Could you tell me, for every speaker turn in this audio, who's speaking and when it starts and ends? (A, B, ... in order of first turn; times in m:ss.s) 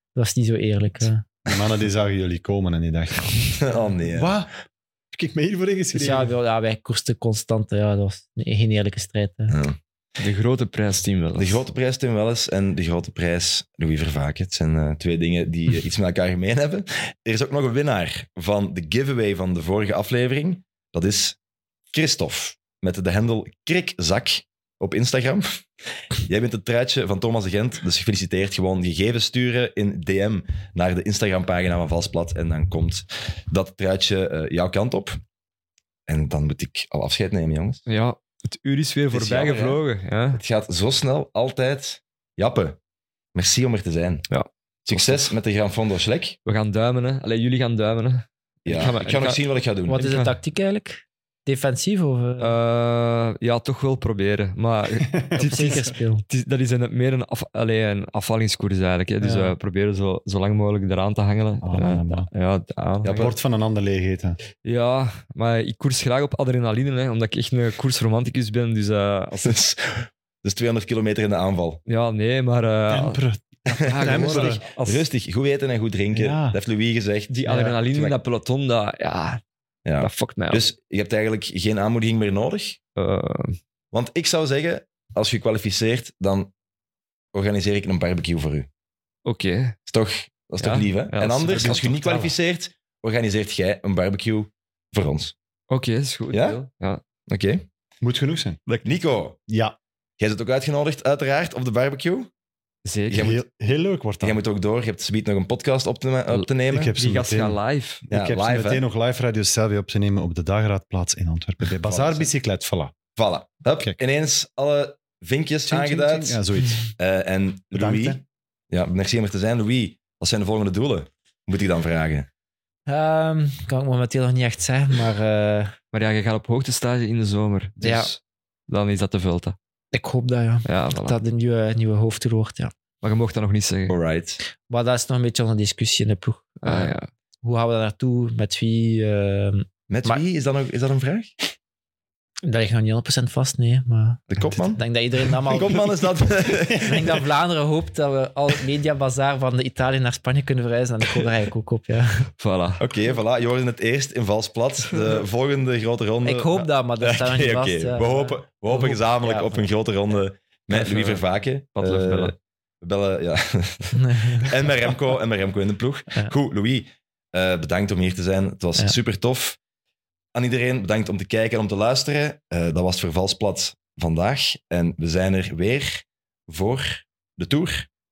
0:00.1-0:01.2 A
0:01.4-0:03.4 B
0:03.5-0:04.3 C
0:04.1-0:04.5 B
0:05.1-0:06.3 B
0:05.9-0:09.5 A
0:09.5-0:09.8 C
0:10.2-0:11.6 D
0:11.4-0:21.4 C
0:21.9-0:35.2 C
0:36.1-0:37.8 C
0:37.9-0:40.4 D
0:39.1-0:39.8 C
0:40.3-0:42.8 C
0:43.3-0:44.3 C
0:44.3-0:45.3 D
0:44.9-0:46.4 C
0:46.4-0:50.4 D
0:48.6-0:50.0 C
0:49.9-0:52.6 A
0:52.4-1:03.3 D
0:55.0-0:55.9 B
0:55.4-0:56.2 A
0:59.2-0:59.5 B
1:01.6-1:02.3 B
1:03.0-1:03.3 C
1:03.1-1:04.4 B
1:04.6-1:09.6 D
1:09.4-1:11.8 C
1:11.8-1:13.2 D
1:12.9-1:14.6 B
1:13.7-1:18.2 C
1:13.8-1:15.1 D
1:16.1-1:16.6 B
1:17.3-1:19.4 D
1:19.8-1:22.8 C
1:20.0-1:20.6 D
1:23.0-1:23.6 D
1:23.9-1:26.5 C
1:27.3-1:28.7 C
1:29.2-1:29.8 D
1:29.9-1:35.3 C
1:30.6-1:31.8 D
1:31.5-1:32.4 B
1:35.7-1:37.0 D
1:36.3-1:36.6 C
1:37.3-1:37.6 C
1:38.0-1:38.6 B
1:38.8-1:39.4 C
1:39.5-1:39.8 B
1:40.2-1:42.3 C
1:42.8-1:43.4 D
1:43.1-1:43.4 C
1:43.1-1:44.4 B
1:44.2-1:46.9 C
1:46.3-1:48.0 D
1:46.7-1:52.9 B
1:48.1-1:48.8 C
1:51.8-1:52.3 C
1:53.2-1:56.4 C
1:55.6-1:56.8 B
1:57.0-2:02.3 C
1:57.7-1:58.2 B
2:02.9-2:05.8 A
2:05.9-2:09.6 D
2:07.8-2:08.1 A
2:09.9-2:12.7 A
2:10.6-2:11.2 D
2:13.0-2:14.0 D
2:13.9-2:14.4 C
2:14.7-2:20.2 A
2:16.6-2:17.1 D
2:19.9-2:21.3 C
2:22.4-2:25.9 A
2:24.3-2:24.8 C
2:25.5-2:27.2 C
2:26.7-2:32.3 A
2:32.4-2:32.8 D
2:32.8-2:49.6 C
2:34.9-2:35.2 D
2:36.2-2:39.6 A
2:40.7-2:42.3 D
2:44.0-2:44.5 A
2:50.3-2:57.9 C